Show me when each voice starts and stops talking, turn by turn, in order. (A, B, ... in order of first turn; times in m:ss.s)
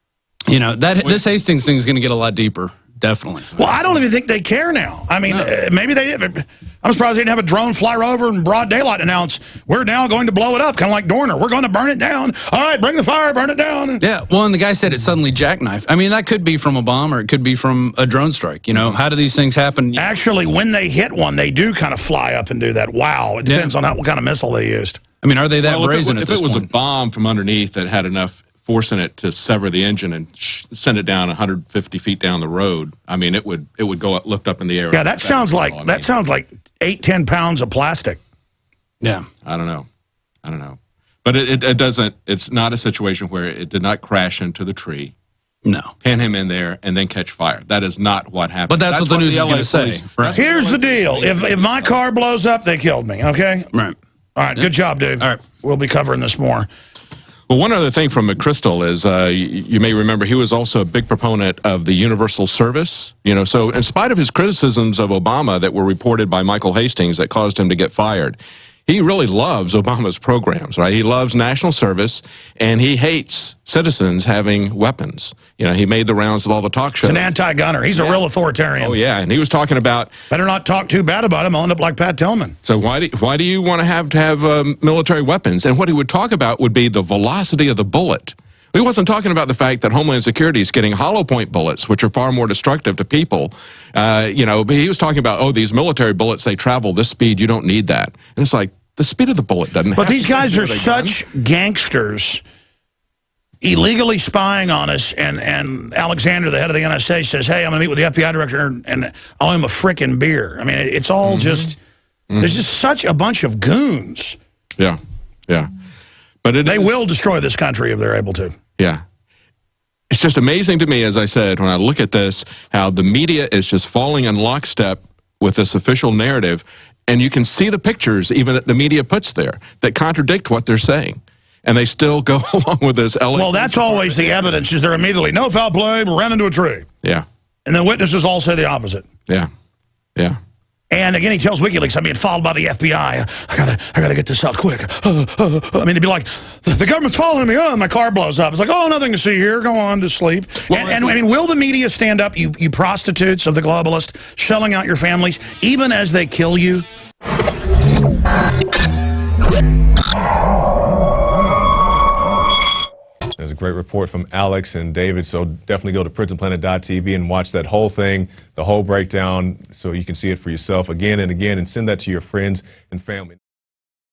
0:00.5-0:03.5 A
0:03.6-0:14.0 B
0:05.3-0:05.5 A
0:14.0-0:20.0 A
0:20.0-0:25.0 B
0:23.4-0:23.7 A
0:25.2-0:26.7 A
0:25.6-0:36.1 C
0:34.9-0:38.2 B
0:39.0-0:39.3 A
0:39.4-0:39.9 C
0:40.4-0:45.1 C
0:45.6-0:45.9 A
0:46.0-0:52.0 C
0:48.7-0:50.4 A
0:50.3-0:53.7 B
0:54.4-0:56.7 B
0:57.5-1:17.3 C
1:17.0-1:19.0 B
1:18.0-1:18.2 C
1:18.8-1:20.1 C
1:20.3-1:22.6 B
1:22.6-1:41.2 C
1:40.0-1:42.4 B
1:43.6-1:51.8 B
1:51.2-1:51.7 C
1:52.3-1:52.6 C
1:52.4-1:54.4 B
1:54.8-1:55.7 C
1:56.4-1:56.9 C
1:56.6-1:58.6 B
1:58.8-1:59.0 C
2:00.1-2:14.5 C
2:13.4-2:16.9 B
2:17.7-2:19.1 B
2:20.9-2:36.9 B
2:30.7-2:31.2 C
2:43.4-2:53.4 D